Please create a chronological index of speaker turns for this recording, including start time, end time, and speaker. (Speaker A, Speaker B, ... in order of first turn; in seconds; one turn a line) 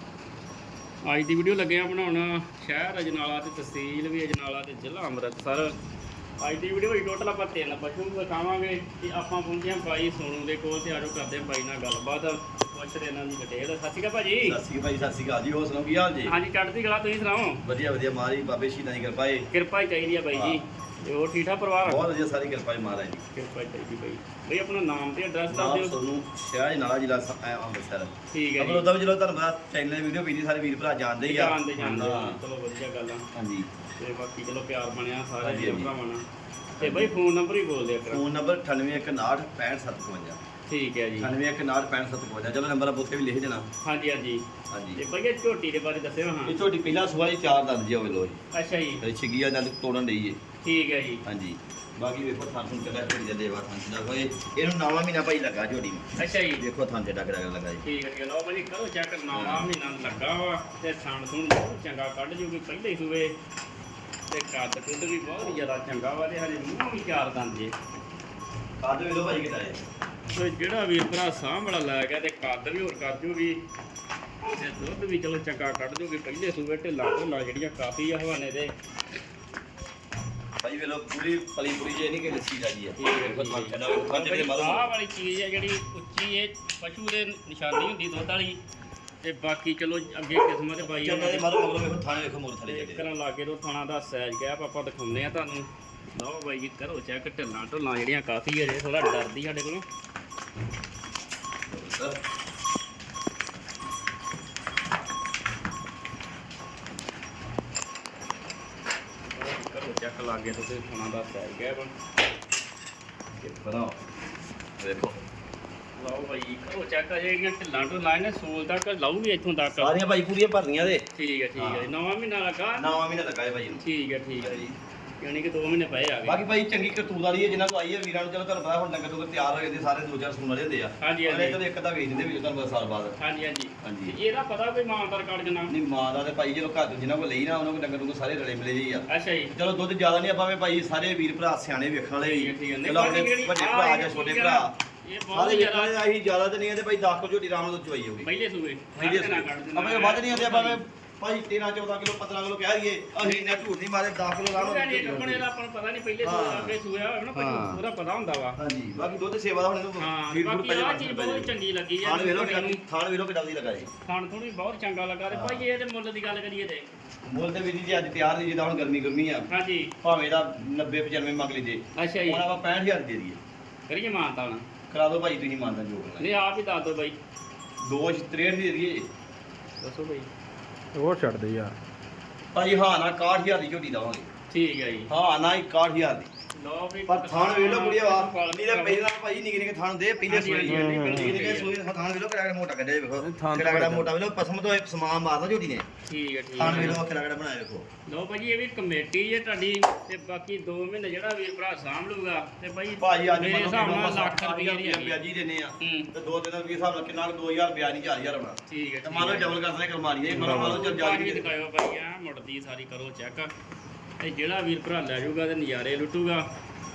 Speaker A: 1.0-5.8
Speaker A: 6.4-14.6
Speaker B: 14.4-16.3
Speaker A: 16.2-17.6
Speaker B: 17.6-19.5
Speaker A: 19.5-22.1
Speaker B: 20.3-20.6
Speaker B: 21.8-23.2
Speaker A: 23.3-26.0
Speaker B: 25.5-32.4
Speaker A: 28.3-28.9
Speaker A: 31.2-33.3
Speaker B: 33.3-33.7
Speaker A: 34.0-36.2
Speaker B: 35.4-35.9
Speaker B: 36.8-37.1
Speaker A: 36.8-38.2
Speaker B: 38.1-40.4
Speaker A: 40.7-41.3
Speaker B: 41.2-43.7
Speaker A: 43.8-44.5
Speaker B: 44.7-45.0
Speaker A: 45.0-46.6
Speaker B: 46.5-48.4
Speaker A: 48.5-49.0
Speaker B: 49.0-50.4
Speaker A: 50.6-51.2
Speaker B: 51.2-57.8
Speaker A: 56.2-56.6
Speaker A: 57.8-63.4
Speaker B: 59.3-59.7
Speaker A: 64.3-67.8
Speaker B: 68.8-69.8
Speaker A: 70.3-73.6
Speaker A: 74.5-78.7
Speaker B: 80.6-84.9
Speaker A: 83.0-88.6
Speaker A: 89.2-91.5
Speaker B: 90.8-93.1
Speaker A: 92.7-99.8
Speaker B: 101.7-102.2
Speaker A: 109.3-111.9
Speaker B: 113.4-114.0
Speaker B: 114.8-115.2
Speaker A: 116.0-120.0
Speaker B: 119.7-121.0
Speaker A: 121.1-122.8
Speaker B: 121.6-121.9
Speaker B: 122.8-123.8
Speaker A: 123.8-124.6
Speaker B: 124.4-124.8
Speaker A: 125.2-126.4
Speaker B: 126.2-133.2
Speaker A: 131.0-131.6
Speaker A: 133.2-135.8
Speaker B: 133.8-134.2
Speaker B: 135.7-144.7
Speaker A: 139.1-139.5
Speaker A: 142.2-146.0
Speaker B: 145.3-148.3
Speaker A: 148.2-150.8
Speaker B: 148.9-155.4
Speaker A: 153.2-153.6
Speaker A: 154.5-158.6
Speaker B: 156.2-156.8
Speaker B: 157.3-157.8
Speaker B: 158.6-163.9
Speaker A: 160.0-162.8
Speaker A: 164.0-166.9
Speaker B: 165.3-165.6
Speaker B: 167.2-169.5
Speaker A: 169.5-169.9
Speaker B: 170.0-173.4
Speaker A: 172.0-172.4
Speaker A: 173.9-174.7
Speaker B: 174.9-176.2
Speaker A: 176.2-177.2
Speaker B: 177.8-179.1
Speaker A: 179.8-180.3
Speaker C: 180.9-181.8
Speaker B: 182.5-184.3
Speaker A: 184.5-185.1
Speaker B: 185.1-186.3
Speaker A: 186.5-189.1
Speaker B: 187.1-195.9
Speaker A: 190.2-191.7
Speaker C: 190.7-191.4
Speaker C: 193.2-194.1
Speaker A: 196.1-197.0
Speaker B: 196.6-197.8
Speaker A: 198.1-205.2
Speaker B: 203.0-211.5
Speaker A: 205.8-206.1
Speaker A: 208.7-209.6
Speaker A: 210.3-213.5
Speaker C: 210.4-210.8
Speaker A: 214.2-216.5